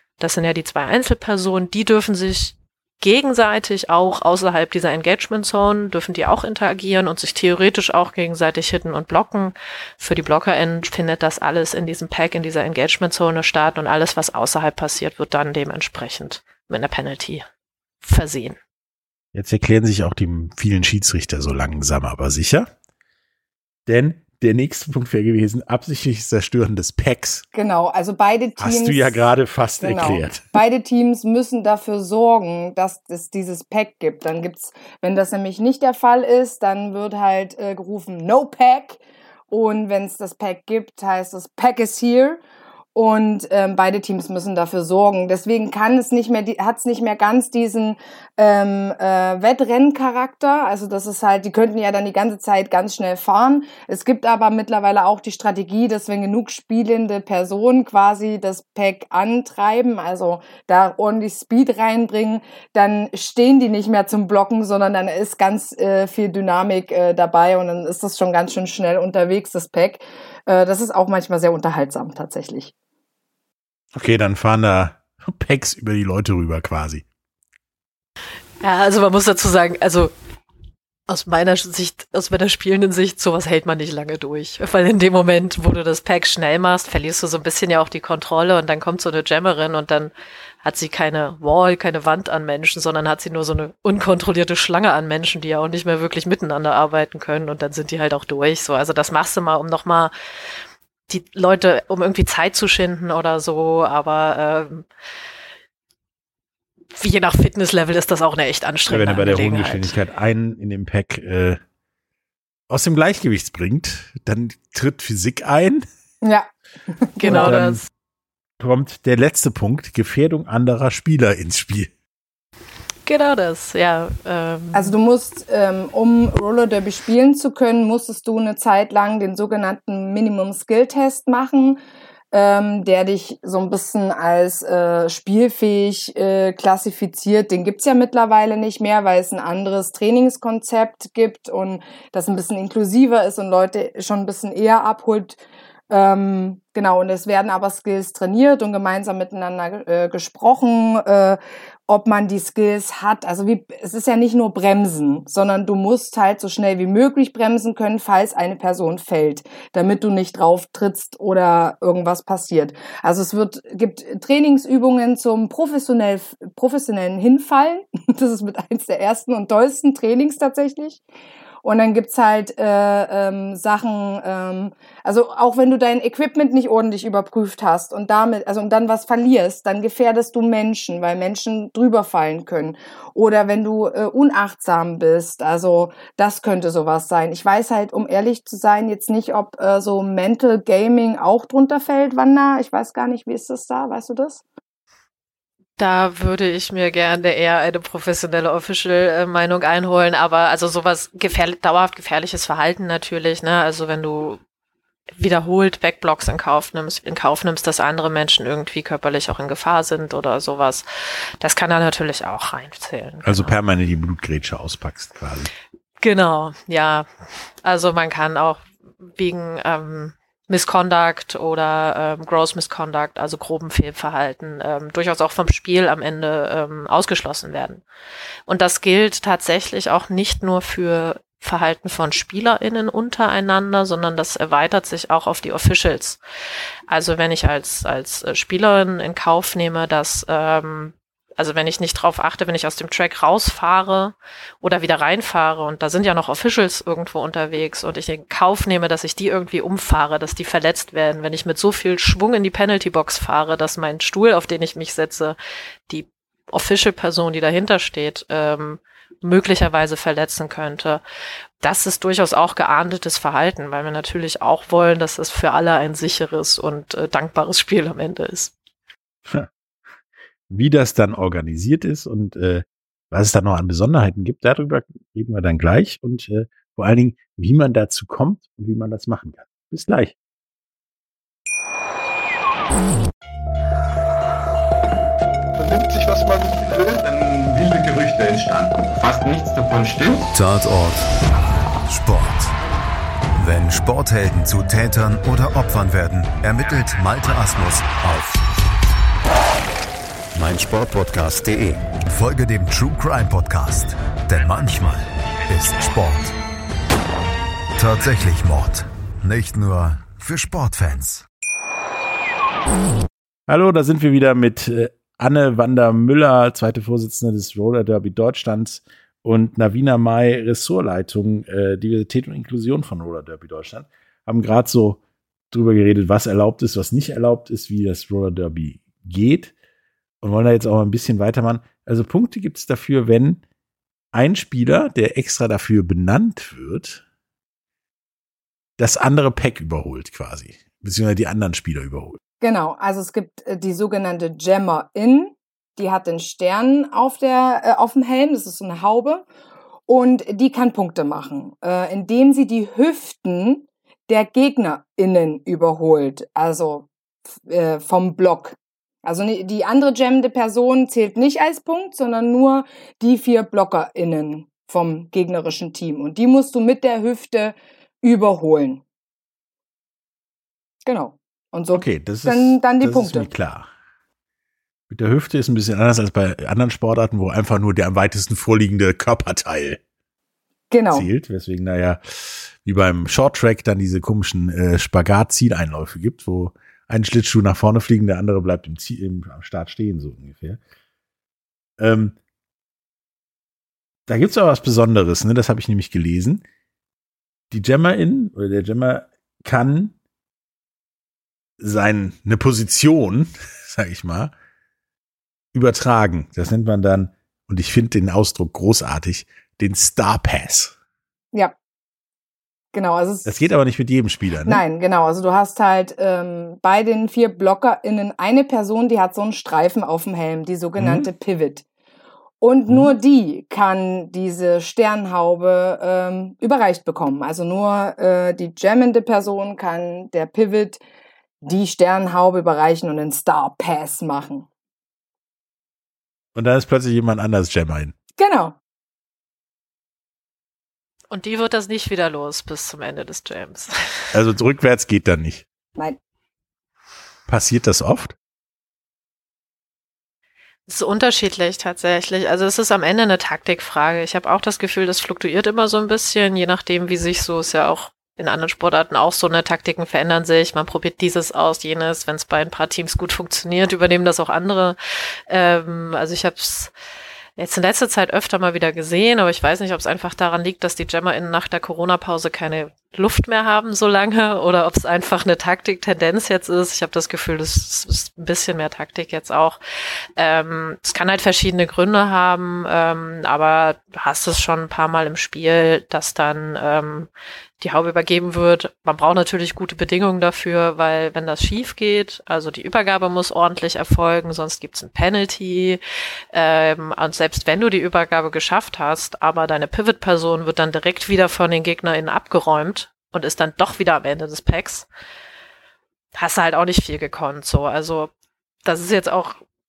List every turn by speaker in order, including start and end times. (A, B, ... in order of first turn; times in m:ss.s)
0:00.2-0:17.4 A
0:18.0-0:18.6 A
0:19.3-0:22.7 B
0:23.8-0:27.4 B
0:27.5-0:29.2 C
0:28.6-0:30.5 B
0:29.8-0:39.0 C
0:39.5-0:42.4 C
0:42.9-1:12.7 C
1:13.9-1:17.0 B
1:18.6-1:20.1 A
1:21.1-1:30.1 A
1:30.6-1:40.1 A
1:41.1-1:44.8 A
1:47.0-1:50.0 A
1:48.9-1:51.6 B
1:52.7-1:55.8 B
1:56.2-1:57.6 C
1:57.2-1:57.9 A
1:57.3-1:57.8 B
1:58.6-2:01.9 B
2:03.0-2:04.9 A
2:04.7-2:11.8 C
2:12.3-2:25.4 C
2:25.9-2:51.0 C
2:51.6-3:14.4 C
3:15.8-3:24.4 A
3:25.2-3:30.8 A
3:31.4-3:33.5 A
3:33.2-3:35.5 B
3:36.0-3:37.0 A
3:37.6-3:47.8 A
3:48.5-3:56.2 A
3:56.9-4:15.4 A
4:15.9-4:21.0 A
4:21.6-4:28.5 A
4:30.5-4:40.1 B
4:45.6-4:50.2 D
4:50.3-4:51.0 E
4:51.9-4:52.5 E
4:53.4-4:58.4 E
5:00.3-5:06.3 E
5:07.8-5:11.2 E
5:13.5-5:25.0 B
5:25.5-5:29.5 B
5:30.2-5:33.4 B
5:34.1-5:37.0 B
5:38.8-5:42.2 B
5:42.4-5:49.2 C
5:49.9-5:56.9 C
5:57.4-6:08.8 C
6:10.8-6:13.3 C
6:11.7-6:13.7 B
6:14.9-6:19.8 B
6:20.7-6:21.1 C
6:20.9-6:30.6 B
6:31.8-6:32.2 B
6:34.1-6:36.4 B
6:37.5-6:39.9 B
6:41.6-6:44.3 B
6:45.5-6:50.7 B
6:52.7-6:53.3 C
6:53.2-6:54.6 B
6:54.4-7:01.6 C
7:00.8-7:01.1 B
7:02.4-7:10.8 C
7:02.7-7:02.9 B
7:11.4-7:14.5 C
7:16.3-7:17.9 B
7:18.2-7:18.6 C
7:21.1-7:24.1 A
7:24.1-7:25.4 B
7:27.3-7:28.1 B
7:30.7-7:44.8 A
7:45.3-7:46.7 A
7:47.4-7:59.6 A
8:00.2-8:07.1 A
8:07.6-8:15.8 A
8:16.3-8:24.9 A
8:26.1-8:28.1 A
8:28.6-8:29.4 A